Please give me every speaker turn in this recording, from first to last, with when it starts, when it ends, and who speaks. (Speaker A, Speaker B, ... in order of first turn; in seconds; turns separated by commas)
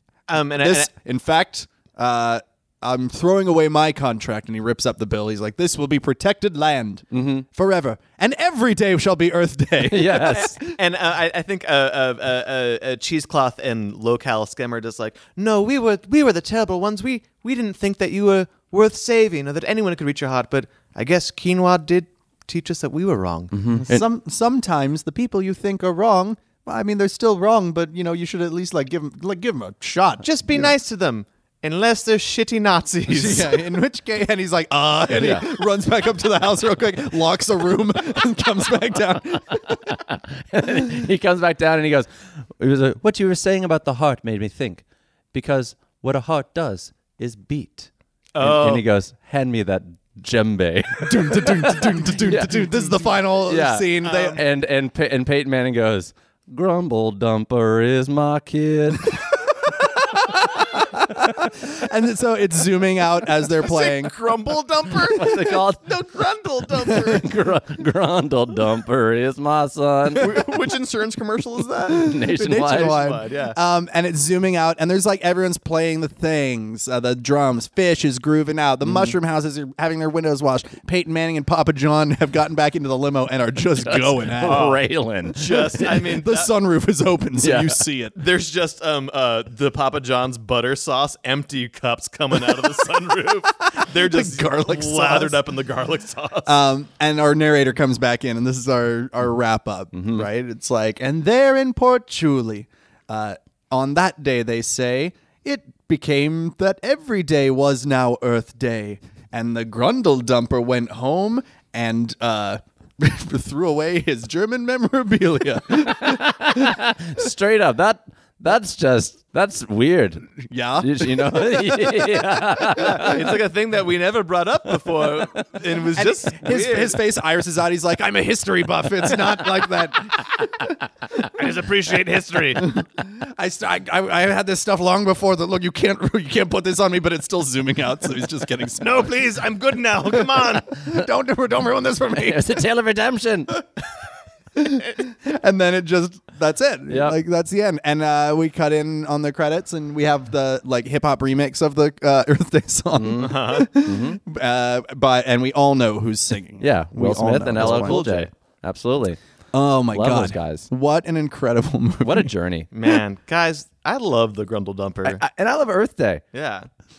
Speaker A: 0.3-0.9, Speaker B: 0.6-10.8, Speaker C: 7.1-7.5, Speaker C: 9.8-10.6, Speaker A: 10.4-23.9, Speaker C: 23.5-24.0, Speaker B: 23.8-30.7, Speaker A: 30.2-33.6, Speaker B: 33.1-39.8, Speaker C: 35.1-35.5, Speaker C: 39.8-47.9, Speaker A: 48.4-48.9, Speaker C: 48.4-59.2, Speaker B: 51.0-54.4, Speaker A: 54.0-54.4, Speaker B: 60.2-64.2, Speaker A: 63.5-67.3, Speaker C: 65.0-65.9, Speaker C: 66.9-70.3, Speaker A: 70.2-73.6, Speaker B: 71.9-84.8, Speaker C: 71.9-73.0, Speaker C: 78.8-79.1, Speaker C: 83.8-85.9, Speaker A: 84.4-86.5, Speaker B: 85.8-88.2, Speaker C: 87.4-87.8, Speaker A: 88.2-96.5, Speaker B: 93.8-95.5, Speaker B: 96.5-116.8, Speaker C: 99.9-100.3, Speaker C: 115.9-120.3, Speaker B: 120.4-123.0, Speaker C: 120.8-123.3, Speaker A: 122.8-127.0, Speaker C: 125.0-125.5, Speaker B: 126.0-130.7, Speaker A: 131.2-132.7, Speaker B: 132.6-139.1, Speaker A: 138.8-140.8, Speaker B: 140.2-142.6, Speaker C: 142.2-143.6, Speaker B: 144.6-158.3, Speaker C: 146.9-147.2, Speaker C: 153.0-154.2, Speaker A: 153.2-153.7, Speaker C: 156.6-159.2, Speaker A: 157.6-158.3, Speaker B: 159.5-162.3, Speaker C: 159.9-160.7, Speaker C: 162.0-162.7, Speaker A: 162.7-165.2, Speaker C: 165.0-166.2, Speaker A: 166.3-166.7